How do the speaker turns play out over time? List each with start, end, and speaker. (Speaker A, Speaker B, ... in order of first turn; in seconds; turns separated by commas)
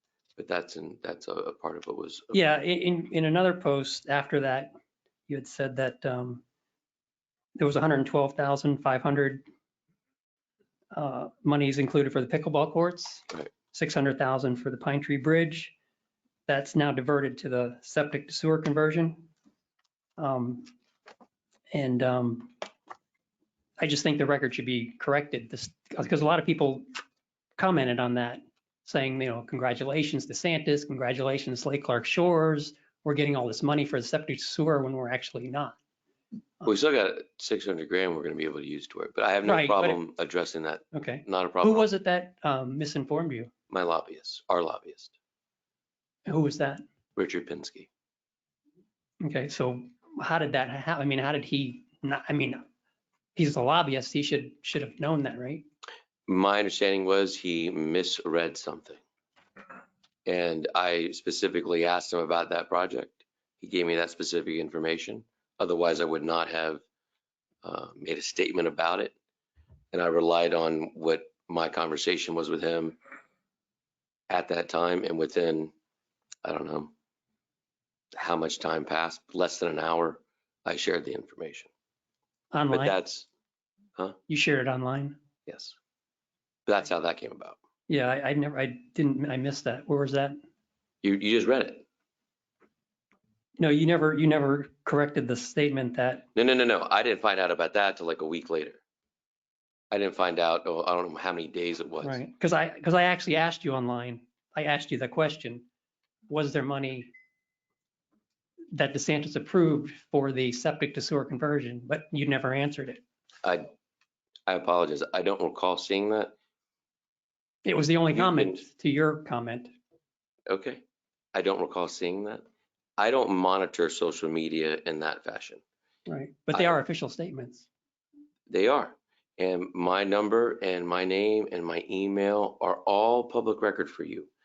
Speaker A: 0.4-2.4, Speaker B: 2.3-4.7, Speaker B: 5.3-6.4, Speaker B: 7.5-9.4, Speaker B: 10.9-15.7, Speaker B: 16.5-19.3, Speaker B: 20.2-20.7, Speaker B: 21.7-22.5, Speaker B: 23.8-26.8, Speaker B: 27.6-35.8, Speaker A: 36.6-41.9, Speaker B: 39.4-40.0, Speaker B: 40.9-43.5, Speaker A: 43.7-45.1, Speaker B: 46.3-46.8, Speaker A: 47.1-47.9, Speaker B: 49.2-52.6, Speaker B: 53.4-55.6, Speaker A: 56.3-59.0, Speaker A: 60.2-66.8, Speaker A: 67.6-69.1, Speaker A: 69.9-73.0, Speaker A: 74.3-75.7, Speaker A: 76.4-76.9, Speaker A: 78.1-81.7, Speaker B: 82.5-83.0, Speaker A: 82.7-83.3, Speaker B: 84.3-85.2, Speaker A: 85.5-85.8, Speaker A: 86.7-87.6, Speaker B: 87.9-90.4, Speaker A: 91.0-91.8, Speaker B: 93.6-96.2, Speaker A: 96.3-98.8, Speaker A: 99.9-102.2, Speaker B: 102.0-105.7, Speaker B: 106.3-107.1, Speaker B: 108.7-113.0, Speaker A: 113.4-113.7, Speaker A: 114.5-116.3, Speaker B: 117.6-119.7, Speaker A: 118.1-118.6, Speaker A: 120.5-120.8, Speaker A: 121.3-122.4, Speaker A: 123.0-125.6, Speaker B: 126.1-127.7, Speaker A: 126.5-126.8, Speaker A: 128.5-134.3